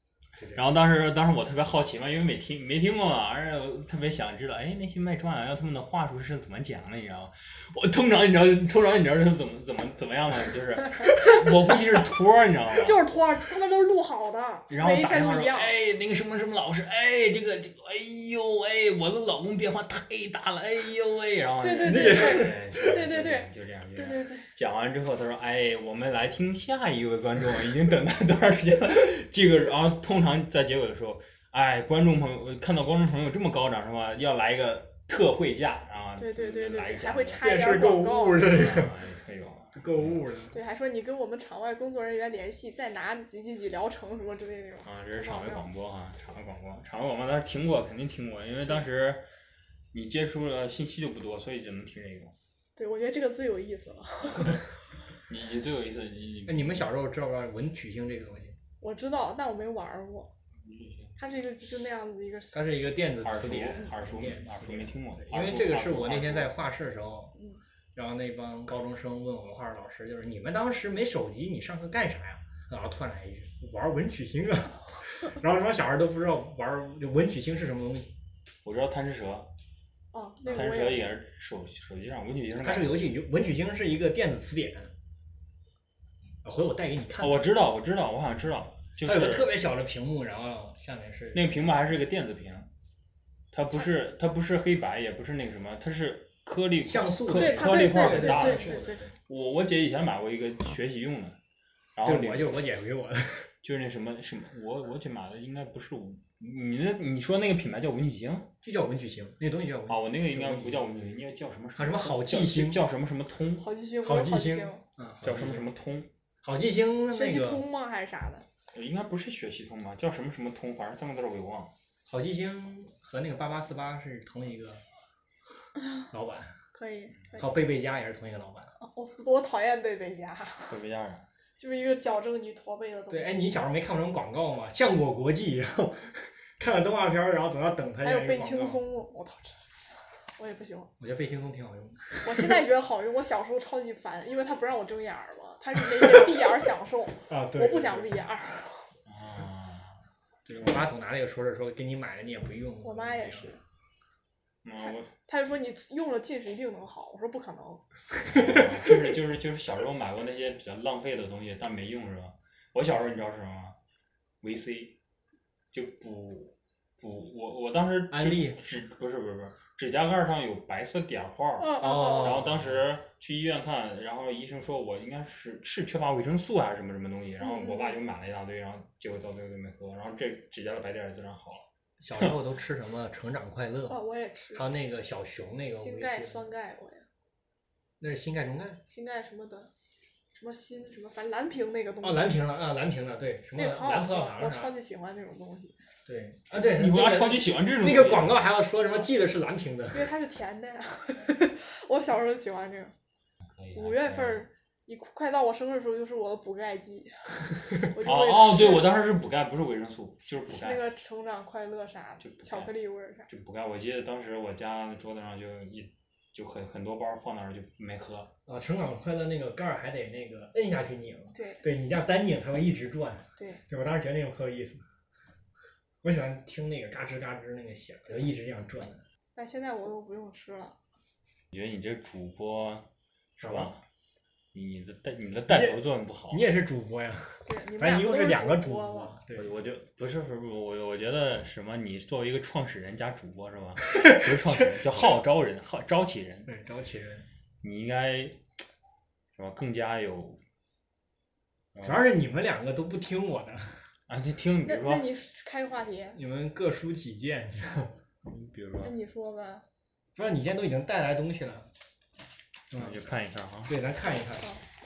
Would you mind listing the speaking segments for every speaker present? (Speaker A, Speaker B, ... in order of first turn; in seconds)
Speaker A: 0.4-0.6, 21.8-23.0, 37.4-38.9, 39.8-40.6, 56.5-58.6, 62.5-67.4, 67.9-78.1, 82.6-84.9, 86.4-87.5, 89.0-91.5, 96.8-99.1, 102.0-103.5, 108.6-111.2, 111.8-112.8, 114.0-115.7, 116.4-117.7, 122.0-124.8, 126.1-126.6, 127.4-128.7, 133.1-138.8, 141.0-142.6, 146.0-146.3, 147.3-148.2, 150.5-153.5, 168.1-168.6, 171.8-172.8, 182.0-184.0, 184.5-186.5, 188.0-188.8, 192.0-194.7, 196.1-200.1, 218.5-224.8, 226.0-229.0, 233.4-233.7, 235.5-239.5, 243.9-245.1, 246.5-247.2, 251.8-253.9, 256.1-258.0, 260.1-261.7, 262.7-263.0, 263.7-264.6
Speaker B: 0.5-13.0, 14.7-37.5, 38.4-40.2, 44.9-49.2, 49.9-52.3, 55.3-56.9, 60.6-61.1, 63.2-66.5, 78.6-79.5, 80.4-83.0, 87.2-89.5, 91.3-92.7, 93.5-101.4, 102.0-102.5, 103.6-108.5, 109.9-113.7, 115.2-116.1, 118.7-121.7, 130.7-131.2, 149.1-150.0, 154.6-155.1, 158.2-163.8, 164.4-164.9, 165.7-181.7, 196.6-198.4, 203.5-204.4, 208.0-210.8, 212.2-212.7, 213.3-218.3, 231.5-232.9, 233.4-233.8, 234.5-236.4, 239.3-246.5, 247.6-248.4, 249.3-250.4, 251.8-252.0, 254.1-255.1, 258.2-258.9, 262.7-263.7
Speaker C: 12.8-15.7, 21.6-24.5, 36.2-38.7, 40.5-45.6, 52.8-54.7, 58.8-60.3, 61.2-62.6, 67.4-67.6, 80.1-81.1, 97.3-99.0, 113.6-114.8, 117.1-118.5, 126.7-127.5, 128.8-130.8, 131.6-133.4, 138.0-140.9, 142.2-148.9, 152.8-153.6, 155.2-157.8, 171.6-172.4, 177.4-178.0, 183.9-184.7, 185.7-187.0, 188.9-189.7, 190.3-192.4, 193.5-195.8, 199.9-202.9, 203.8-209.0, 210.3-213.3, 221.3-221.6, 223.4-223.6, 229.3-230.8, 237.5-239.1, 254.7-256.2, 258.8-259.6